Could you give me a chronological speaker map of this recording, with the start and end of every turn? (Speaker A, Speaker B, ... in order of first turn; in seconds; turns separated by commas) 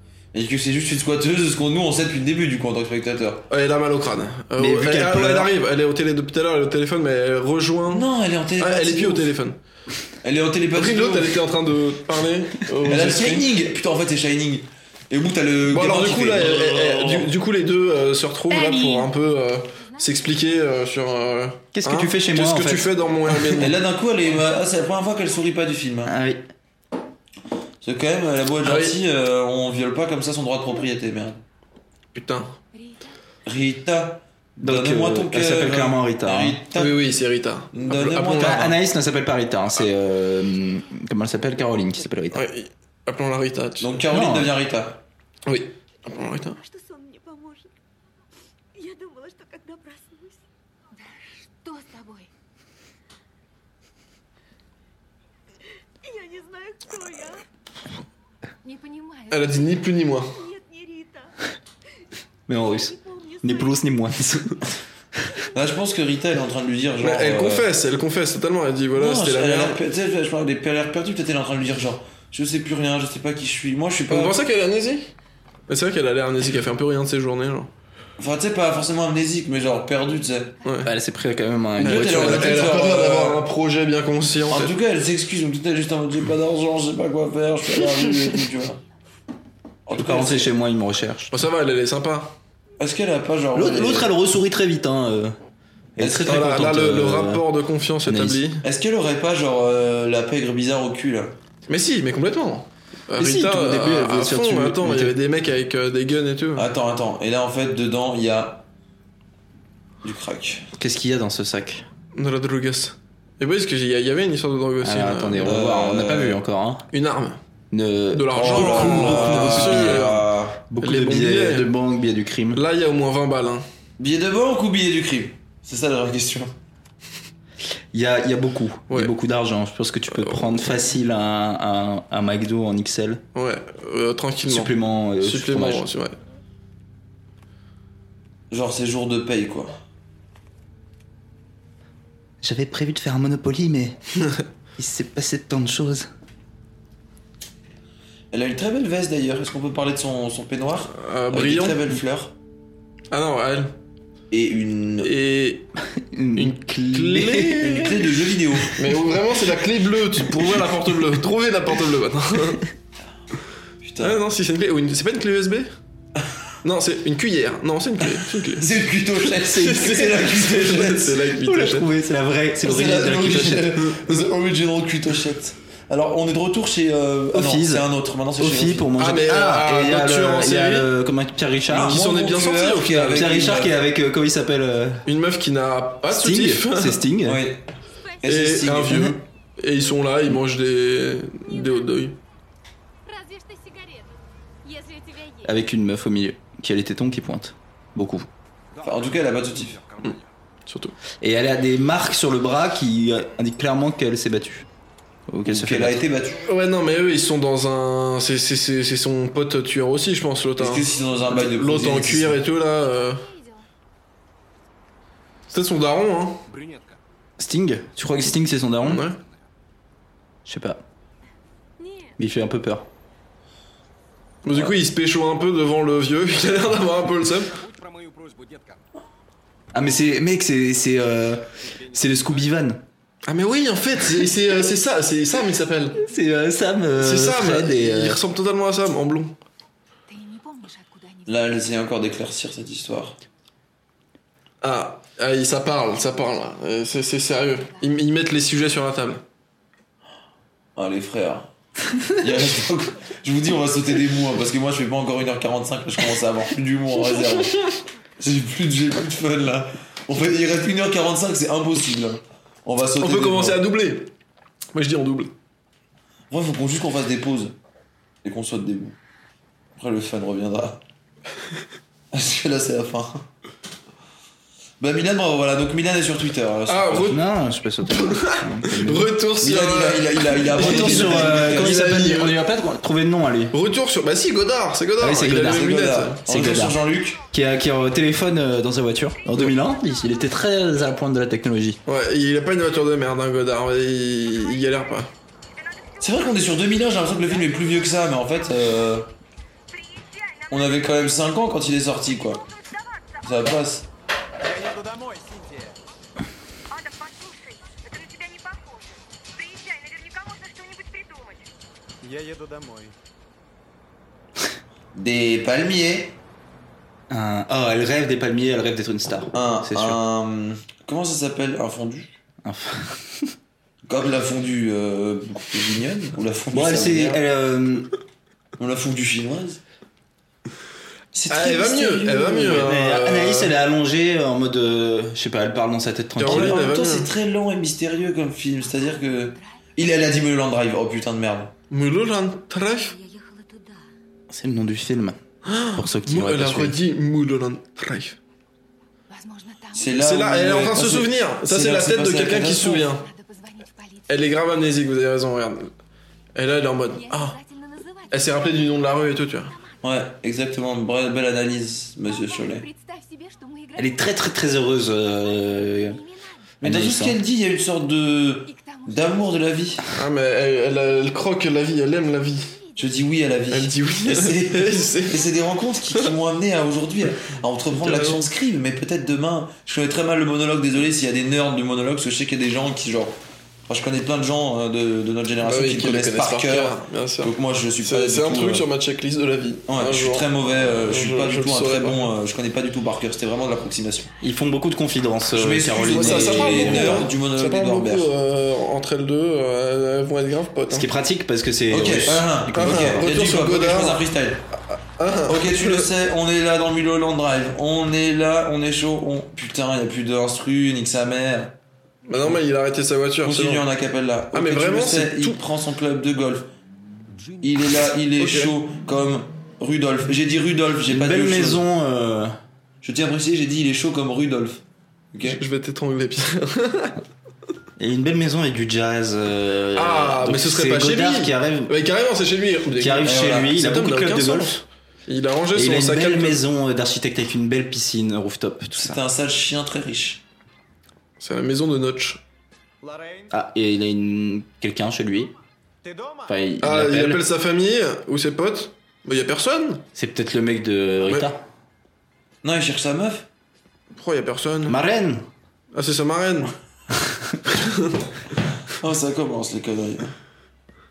Speaker A: 0.3-3.5, Speaker B: 3.5-8.1, Speaker C: 4.6-5.5, Speaker A: 7.9-9.3, Speaker B: 8.6-9.6, Speaker A: 10.2-11.4, Speaker B: 10.7-13.5, Speaker A: 12.9-17.3, Speaker B: 15.7-23.7, Speaker D: 19.8-20.8, Speaker C: 21.7-22.9, Speaker A: 23.5-26.1, Speaker C: 26.1-26.5, Speaker A: 27.8-31.4, Speaker B: 28.6-29.0, Speaker B: 32.1-32.5, Speaker D: 32.7-33.1, Speaker A: 33.5-37.0, Speaker C: 34.6-36.6, Speaker B: 36.8-38.7, Speaker A: 37.7-38.7, Speaker C: 38.4-42.4, Speaker B: 42.3-44.0, Speaker A: 43.8-45.0, Speaker C: 44.1-44.5, Speaker B: 45.5-46.6, Speaker E: 47.0-47.6, Speaker E: 49.0-50.4, Speaker D: 51.0-52.3, Speaker E: 56.7-57.2, Speaker D: 58.6-59.9, Speaker B: 59.3-60.4, Speaker E: 60.9-61.2, Speaker C: 62.5-64.7, Speaker A: 65.5-67.7, Speaker B: 67.0-69.8, Speaker A: 69.0-74.3, Speaker B: 74.1-75.1, Speaker B: 75.7-77.7, Speaker A: 78.2-80.5, Speaker B: 80.7-80.9, Speaker C: 80.8-82.8, Speaker A: 81.8-83.4, Speaker B: 81.8-84.7, Speaker A: 84.5-88.8, Speaker A: 89.9-90.5, Speaker C: 90.0-91.3, Speaker B: 91.3-92.4, Speaker A: 92.8-94.1, Speaker C: 93.5-95.4, Speaker C: 96.0-97.4, Speaker B: 96.0-98.6, Speaker C: 98.0-98.4, Speaker A: 98.6-101.3, Speaker B: 101.7-106.7, Speaker C: 103.2-105.2, Speaker A: 106.6-108.7, Speaker A: 110.0-110.7, Speaker C: 110.8-111.9, Speaker B: 112.2-115.6, Speaker C: 114.8-116.8, Speaker A: 115.4-116.4, Speaker B: 116.9-117.4, Speaker C: 117.7-122.6, Speaker B: 118.1-120.3, Speaker A: 118.3-120.6, Speaker B: 120.8-121.7, Speaker B: 122.5-123.7, Speaker A: 124.0-126.5, Speaker C: 127.9-133.2, Speaker B: 130.1-130.7, Speaker B: 133.3-136.2, Speaker C: 134.5-135.9, Speaker A: 138.5-139.8, Speaker C: 142.4-144.0, Speaker C: 144.8-146.1, Speaker A: 148.3-152.3, Speaker B: 150.9-152.0, Speaker B: 153.1-153.7, Speaker A: 154.3-155.1, Speaker B: 155.0-155.7, Speaker C: 156.0-157.9, Speaker B: 156.4-158.0, Speaker A: 157.6-158.8, Speaker B: 158.7-162.6, Speaker A: 163.8-164.2, Speaker B: 164.0-165.7, Speaker B: 166.6-168.7, Speaker A: 168.5-171.2, Speaker B: 169.3-171.9, Speaker C: 171.4-173.8, Speaker A: 172.6-178.9, Speaker B: 173.8-174.2, Speaker C: 177.3-177.9, Speaker C: 178.4-182.0, Speaker B: 179.0-180.9, Speaker A: 181.7-183.8, Speaker B: 181.7-183.4, Speaker C: 183.0-185.1, Speaker B: 185.1-187.0, Speaker C: 186.1-187.4, Speaker A: 187.2-187.7, Speaker A: 188.2-189.1, Speaker B: 188.3-192.2, Speaker C: 188.9-189.2, Speaker D: 191.5-192.0, Speaker D: 193.1-195.6, Speaker C: 195.4-198.3, Speaker F: 198.8-200.2, Speaker A: 198.8-199.8, Speaker B: 200.0-201.0, Speaker C: 201.2-204.7, Speaker C: 205.3-206.1, Speaker A: 205.4-206.4, Speaker B: 206.4-213.3, Speaker A: 210.6-212.4, Speaker D: 212.8-213.7, Speaker B: 215.5-216.4, Speaker F: 216.5-217.0, Speaker C: 217.4-219.1, Speaker B: 218.8-219.2, Speaker C: 220.5-220.8, Speaker D: 221.8-222.1, Speaker C: 222.2-222.9, Speaker B: 224.4-227.6, Speaker F: 227.6-228.8, Speaker C: 229.7-232.8, Speaker B: 233.3-236.0, Speaker C: 236.0-238.2, Speaker B: 237.0-239.4, Speaker D: 240.1-241.5, Speaker A: 241.3-243.2, Speaker B: 244.6-249.2, Speaker A: 250.8-251.5, Speaker A: 252.1-257.6, Speaker A: 258.2-263.6, Speaker B: 263.0-264.1, Speaker B: 264.7-265.3, Speaker A: 266.3-267.6, Speaker A: 268.2-269.0, Speaker A: 269.8-270.8, Speaker A: 272.1-273.3, Speaker A: 274.8-277.1, Speaker B: 276.7-277.2, Speaker C: 277.1-279.1, Speaker B: 277.9-282.4, Speaker A: 279.4-281.7, Speaker C: 280.5-283.6, Speaker B: 283.5-286.2, Speaker C: 285.0-285.7, Speaker A: 285.4-287.2, Speaker C: 286.3-291.8, Speaker B: 289.3-289.6, Speaker B: 291.9-295.1, Speaker A: 296.0-299.1, Speaker A: 300.5-302.4, Speaker A: 303.2-303.9, Speaker F: 304.5-305.8, Speaker E: 310.0-310.5, Speaker F: 312.0-312.9, Speaker A: 314.9-316.2, Speaker C: 317.1-320.0, Speaker A: 319.3-322.2, Speaker C: 322.4-323.3, Speaker A: 323.9-327.2, Speaker C: 326.5-327.9, Speaker A: 328.6-329.6, Speaker A: 331.1-332.6, Speaker B: 331.3-333.5, Speaker C: 332.5-336.7, Speaker B: 336.2-337.1, Speaker A: 336.2-341.5, Speaker D: 338.7-339.6, Speaker B: 341.7-342.9, Speaker E: 342.7-343.9, Speaker C: 344.3-345.2, Speaker B: 345.4-348.2, Speaker C: 345.7-346.8, Speaker D: 349.1-350.0, Speaker A: 349.7-352.9, Speaker B: 350.0-353.1, Speaker D: 352.8-354.5, Speaker B: 354.1-355.7, Speaker B: 356.4-357.4, Speaker D: 356.9-359.7, Speaker B: 358.1-359.5, Speaker A: 359.8-362.7, Speaker D: 362.0-366.4, Speaker C: 363.8-366.0, Speaker A: 366.6-369.8, Speaker C: 366.6-367.2, Speaker D: 368.4-369.6, Speaker B: 369.9-372.5, Speaker A: 372.8-383.2, Speaker B: 373.5-375.2, Speaker B: 377.8-378.3, Speaker A: 383.7-388.6, Speaker B: 385.4-390.3, Speaker A: 389.7-394.1, Speaker B: 390.8-392.1, Speaker C: 394.2-397.1, Speaker A: 395.3-398.1, Speaker B: 395.9-400.9, Speaker C: 400.7-402.9, Speaker A: 401.7-404.4, Speaker B: 402.5-404.0, Speaker B: 404.7-405.9, Speaker A: 405.3-411.6, Speaker B: 412.1-413.7, Speaker A: 413.2-416.5, Speaker B: 414.3-415.4, Speaker A: 417.4-421.6, Speaker B: 418.2-418.6, Speaker C: 420.9-422.4, Speaker A: 422.8-424.6, Speaker A: 425.1-425.4, Speaker B: 425.3-427.0, Speaker C: 427.8-431.7, Speaker B: 429.8-436.4, Speaker C: 432.8-434.6, Speaker A: 433.0-433.5, Speaker C: 435.5-439.0, Speaker A: 438.7-440.2, Speaker B: 441.2-442.2, Speaker F: 442.8-443.3, Speaker C: 443.3-445.3, Speaker F: 445.8-446.3, Speaker C: 446.3-447.2, Speaker B: 446.6-449.9, Speaker C: 449.9-451.4, Speaker A: 452.4-453.3, Speaker B: 453.9-454.8, Speaker C: 454.7-455.3, Speaker B: 455.7-456.5, Speaker B: 457.5-458.0, Speaker A: 458.7-460.1